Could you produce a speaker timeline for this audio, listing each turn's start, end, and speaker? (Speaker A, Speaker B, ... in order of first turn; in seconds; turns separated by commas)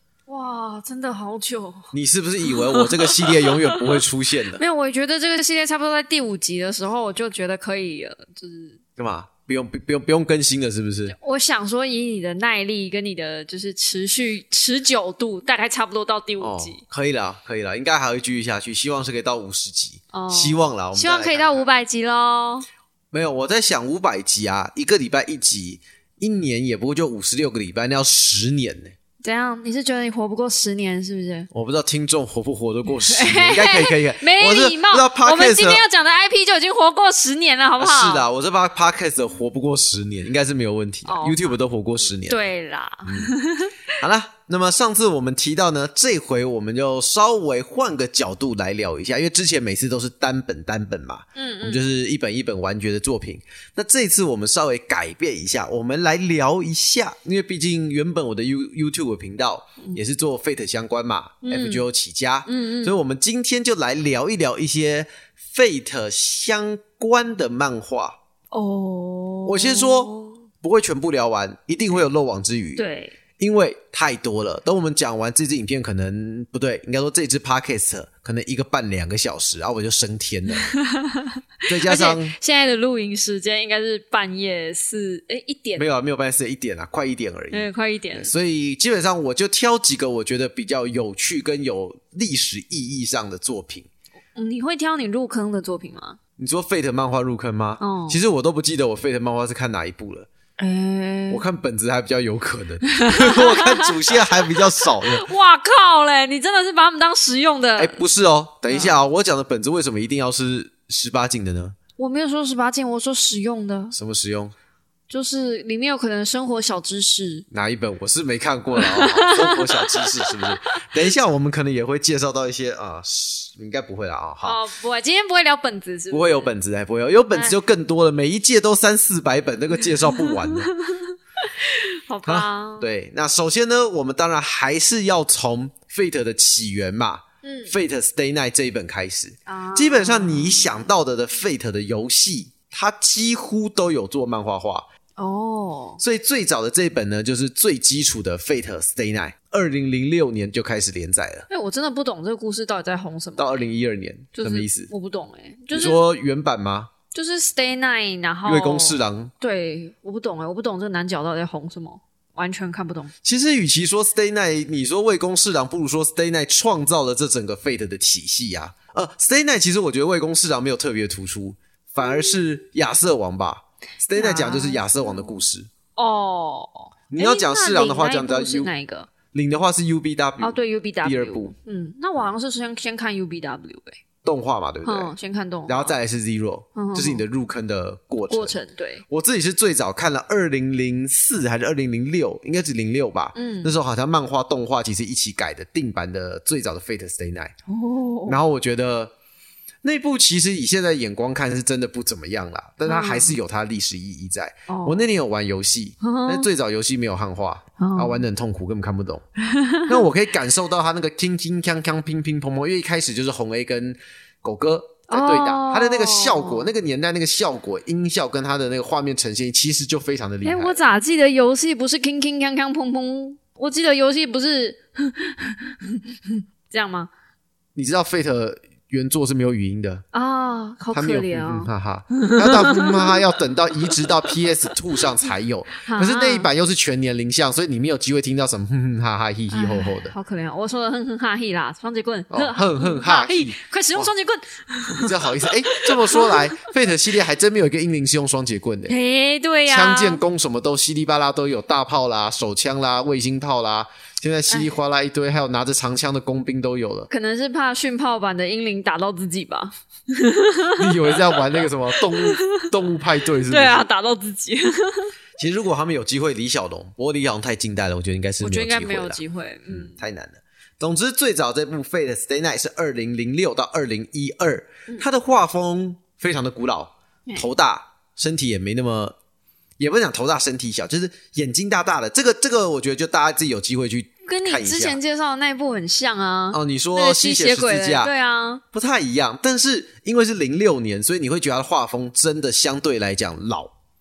Speaker A: 0.3-1.9, Speaker B: 1.9-4.6, Speaker A: 2.4-4.0, Speaker A: 4.5-8.8, Speaker B: 9.0-11.2, Speaker A: 11.1-16.8, Speaker B: 16.4-21.6, Speaker A: 20.1-22.6, Speaker B: 23.1-28.9, Speaker A: 29.2-31.5, Speaker B: 31.5-35.8, Speaker A: 33.0-38.2, Speaker B: 37.8-42.4, Speaker A: 41.0-41.5, Speaker A: 42.2-43.8, Speaker B: 43.0-43.3, Speaker B: 44.0-68.2, Speaker A: 51.4-51.8, Speaker A: 61.4-61.8, Speaker A: 62.5-63.0, Speaker A: 68.5-70.4, Speaker B: 69.5-72.8, Speaker A: 72.8-73.2, Speaker B: 73.4-80.7, Speaker A: 80.5-85.8, Speaker B: 81.7-82.3, Speaker B: 85.8-93.9, Speaker A: 87.5-88.3, Speaker A: 94.3-96.2, Speaker B: 96.4-100.3, Speaker A: 97.8-98.2, Speaker A: 100.6-101.4, Speaker B: 101.3-105.2, Speaker A: 102.9-108.0, Speaker B: 107.8-111.8, Speaker A: 108.7-109.0, Speaker A: 112.0-113.9, Speaker B: 113.9-114.5, Speaker A: 115.1-117.5, Speaker B: 117.5-124.6, Speaker A: 118.8-120.5, Speaker A: 124.4-126.5, Speaker B: 126.1-130.7, Speaker A: 127.3-127.6, Speaker A: 129.8-132.9, Speaker B: 132.2-144.8, Speaker A: 137.4-137.7, Speaker A: 139.5-140.9, Speaker A: 145.2-146.0, Speaker B: 146.0-151.5, Speaker A: 151.5-153.7, Speaker B: 153.4-154.9, Speaker A: 154.3-156.0, Speaker B: 155.7-156.9, Speaker A: 157.1-163.1, Speaker B: 158.4-159.3, Speaker B: 163.2-175.7, Speaker A: 172.0-172.4, Speaker A: 174.1-175.4, Speaker A: 175.9-179.1, Speaker B: 177.1-178.7, Speaker B: 179.3-181.5, Speaker A: 180.4-184.0, Speaker B: 184.2-185.1, Speaker A: 184.8-185.9, Speaker B: 185.7-188.6, Speaker A: 186.7-187.2, Speaker A: 188.3-189.0, Speaker B: 189.1-197.5, Speaker A: 193.3-193.7, Speaker A: 197.7-198.4, Speaker B: 198.3-199.1, Speaker B: 199.8-209.2, Speaker A: 202.8-203.3, Speaker A: 204.7-205.0, Speaker A: 206.0-206.5, Speaker A: 207.8-208.2, Speaker A: 209.4-210.0, Speaker B: 209.9-220.8, Speaker A: 215.1-216.7, Speaker A: 220.4-227.1, Speaker B: 227.8-230.0, Speaker A: 230.1-231.7, Speaker B: 230.9-240.1, Speaker A: 232.2-233.2, Speaker A: 233.9-234.5, Speaker A: 235.8-236.5, Speaker A: 239.5-246.6, Speaker B: 242.3-244.1, Speaker B: 244.9-248.9, Speaker A: 248.9-250.2, Speaker B: 249.7-257.1, Speaker A: 257.1-262.6, Speaker B: 260.8-263.8, Speaker A: 263.5-265.1, Speaker B: 265.4-279.1, Speaker A: 268.4-269.9, Speaker B: 279.8-285.0, Speaker A: 284.2-288.6, Speaker B: 286.5-288.1, Speaker B: 288.7-293.7